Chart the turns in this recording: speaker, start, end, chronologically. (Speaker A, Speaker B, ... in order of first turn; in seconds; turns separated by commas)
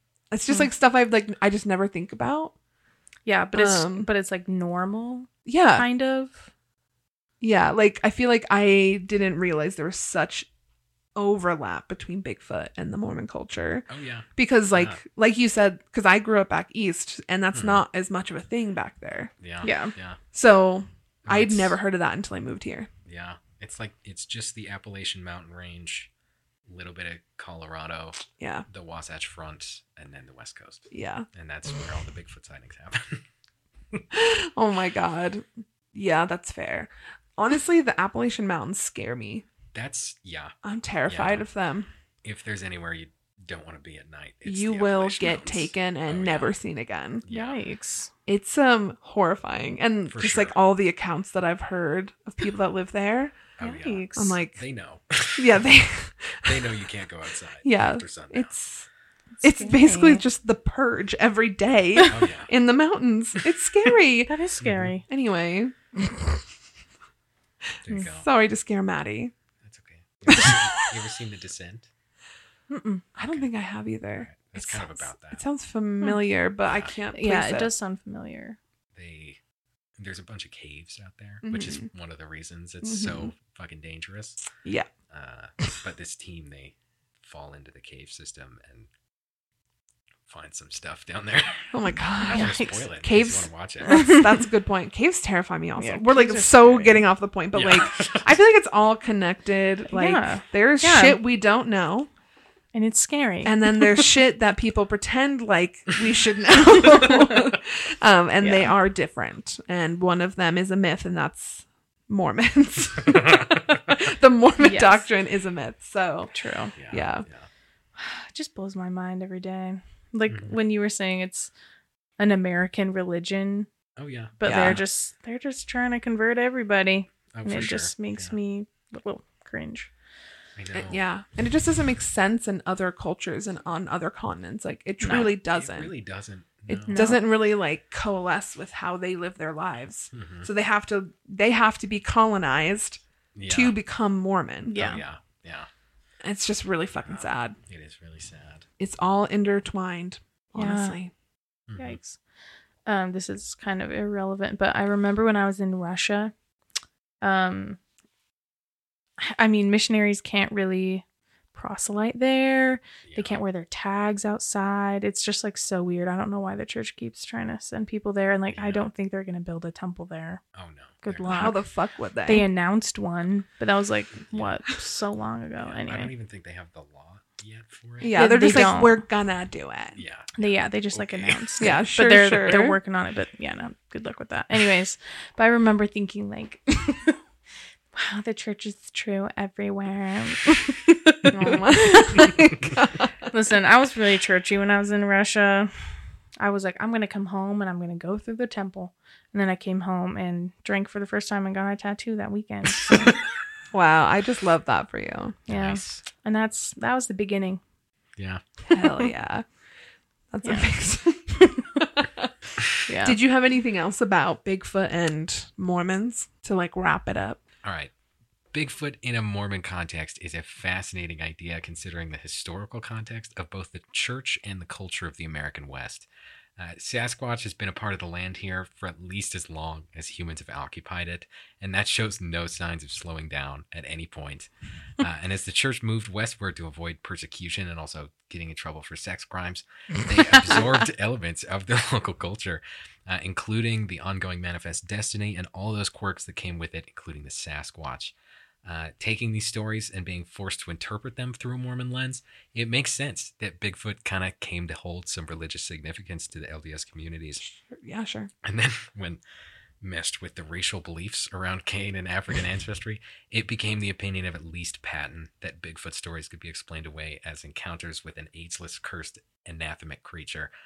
Speaker A: 0.3-2.5, Speaker B: 3.2-6.5, Speaker A: 3.5-4.1, Speaker A: 5.5-5.8, Speaker A: 7.4-10.5, Speaker A: 11.2-19.3, Speaker C: 13.9-15.0, Speaker C: 17.5-17.8, Speaker C: 19.4-20.2, Speaker B: 19.6-19.9, Speaker A: 20.3-22.9, Speaker C: 21.2-21.8, Speaker C: 23.1-26.1, Speaker C: 26.7-33.2, Speaker A: 28.4-28.6, Speaker A: 30.9-31.3, Speaker A: 34.1-39.4, Speaker C: 39.7-40.5, Speaker A: 40.6-41.9, Speaker C: 41.1-41.5, Speaker C: 42.2-46.5, Speaker A: 44.4-47.2, Speaker C: 47.2-47.6, Speaker B: 47.3-48.1, Speaker A: 48.2-53.4, Speaker C: 50.1-50.5, Speaker C: 53.6-55.7, Speaker B: 53.6-54.4, Speaker A: 54.1-54.6, Speaker A: 55.4-56.8, Speaker C: 56.4-58.5, Speaker A: 57.6-58.9, Speaker B: 59.4-60.2, Speaker A: 59.4-64.4, Speaker C: 62.0-62.5, Speaker B: 64.3-65.0, Speaker C: 64.6-64.9, Speaker A: 65.1-65.7, Speaker C: 67.8-68.3, Speaker A: 68.1-69.3, Speaker C: 69.6-71.9, Speaker A: 70.3-70.9, Speaker B: 72.7-73.0, Speaker A: 73.1-77.7, Speaker C: 74.2-75.4, Speaker B: 77.1-78.6, Speaker C: 78.9-79.4, Speaker C: 80.0-84.4, Speaker A: 81.4-81.9, Speaker A: 82.8-83.3, Speaker C: 85.1-88.9, Speaker C: 90.3-93.9, Speaker A: 91.7-102.1, Speaker B: 92.3-92.8, Speaker B: 93.8-94.2, Speaker B: 95.8-97.0, Speaker C: 97.5-98.3, Speaker B: 99.9-101.2, Speaker B: 102.7-104.0, Speaker A: 103.4-116.3, Speaker B: 108.4-108.7, Speaker C: 113.1-113.8, Speaker B: 114.6-115.0, Speaker B: 116.3-116.7, Speaker C: 116.8-117.5, Speaker A: 116.9-117.2, Speaker B: 118.0-121.5, Speaker C: 120.3-120.5, Speaker B: 122.2-123.7, Speaker C: 124.0-124.7, Speaker B: 124.4-129.9, Speaker A: 124.4-124.8, Speaker C: 127.3-128.3, Speaker C: 130.5-131.0, Speaker A: 130.8-135.9, Speaker B: 135.0-135.3, Speaker C: 135.1-137.1, Speaker B: 136.7-137.3, Speaker A: 136.9-144.8, Speaker C: 140.1-140.5, Speaker C: 143.3-143.8, Speaker B: 144.7-145.0, Speaker C: 144.7-145.7, Speaker A: 146.2-147.6, Speaker C: 147.0-148.7, Speaker A: 148.8-151.1, Speaker B: 150.6-151.0, Speaker C: 151.7-152.0, Speaker B: 151.8-152.2, Speaker B: 152.8-156.3, Speaker B: 157.2-157.8, Speaker B: 159.2-170.4, Speaker C: 163.0-163.4, Speaker C: 168.5-168.8, Speaker C: 170.5-171.5, Speaker B: 171.0-171.6, Speaker A: 171.3-172.4, Speaker B: 172.2-176.1, Speaker C: 175.6-178.2, Speaker A: 178.0-180.0, Speaker B: 178.0-179.0, Speaker C: 179.9-181.8, Speaker B: 180.3-187.2, Speaker A: 181.6-182.8, Speaker B: 187.9-192.4, Speaker A: 191.3-193.3, Speaker B: 193.3-195.7, Speaker B: 196.4-203.2, Speaker A: 203.7-205.3, Speaker B: 205.5-207.6, Speaker C: 205.5-206.0, Speaker C: 208.2-208.4, Speaker A: 208.6-209.4, Speaker A: 210.3-212.3, Speaker B: 210.4-210.7, Speaker B: 211.3-211.8, Speaker B: 212.8-213.2, Speaker A: 213.0-217.4, Speaker C: 217.6-217.9, Speaker C: 218.5-257.4, Speaker A: 257.4-258.3, Speaker C: 258.4-259.2, Speaker C: 259.8-270.5